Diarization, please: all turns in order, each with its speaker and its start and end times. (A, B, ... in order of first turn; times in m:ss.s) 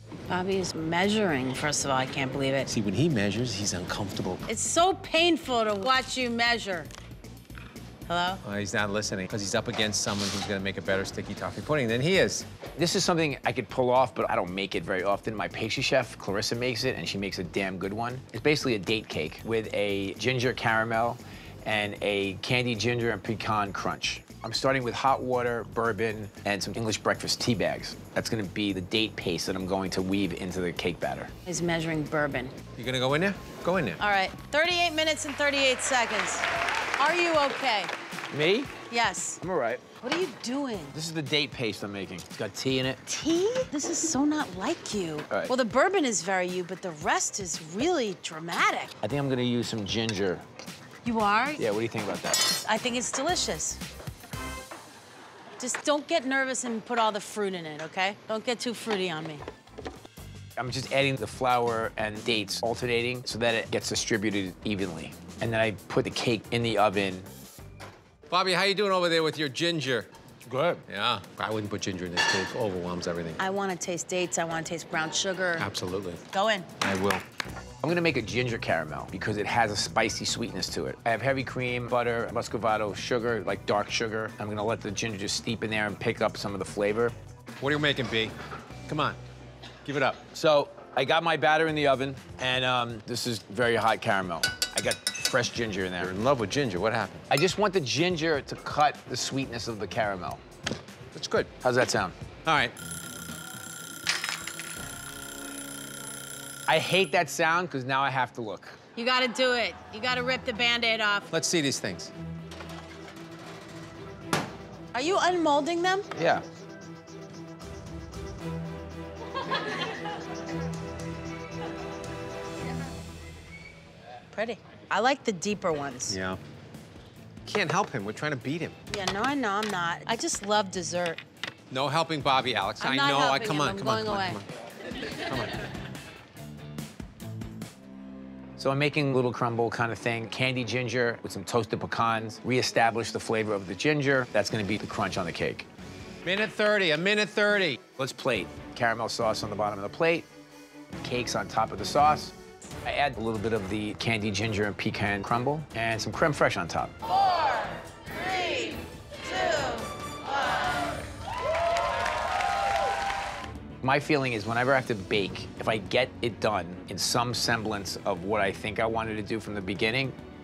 0:00.3-0:02.7 A
0:02.7-0:04.4 B
0:04.5-0:06.9 A
0:08.1-0:08.4 A
0:08.4-0:12.4 B
0:12.8-0:31.3 C
0:31.5-0:32.5 A
0:32.7-0:34.0 B
0:34.0-0:36.5 A
0:37.0-0:37.9 A
0:38.3-0:38.8 C
0:38.9-0:39.4 A
0:39.4-0:39.9 C
0:40.0-0:41.0 A
0:40.9-0:43.2 C
0:43.1-0:48.9 A
0:49.0-0:50.4 C
0:51.0-0:51.6 A
0:51.6-0:52.5 C
0:52.6-0:53.8 A
0:55.6-0:59.4 A
1:00.6-1:07.3 C
1:08.3-1:10.1 B
1:10.4-1:10.9 C
1:10.9-1:13.4 B
1:13.4-1:15.7 A
1:15.6-1:16.2 B
1:16.3-1:16.7 A
1:16.8-1:17.2 B
1:17.8-1:27.1 C
1:27.6-1:28.3 B
1:28.9-1:29.2 B
1:29.8-1:30.2 B
1:30.3-1:36.1 C
1:36.0-1:37.2 B
1:37.3-1:40.4 C
1:41.1-1:41.5 B
1:41.6-1:42.1 C
1:42.4-1:42.7 B
1:46.7-1:48.8 C
1:49.0-1:51.3 A
1:51.3-1:52.1 B
1:54.9-1:56.1 A
1:56.1-1:56.4 C
2:04.3-2:06.2 A
2:06.1-2:06.4 B
2:07.4-2:08.8 B
2:08.9-2:11.2 A
2:11.7-2:14.4 B
2:12.8-2:14.4 A
2:15.2-2:15.6 B
2:18.6-2:25.7 C
2:26.2-2:27.8 B
2:27.9-2:30.2 C
2:31.0-2:36.9 C
2:38.2-2:38.8 A
2:39.3-2:39.8 A
2:43.8-2:50.2 C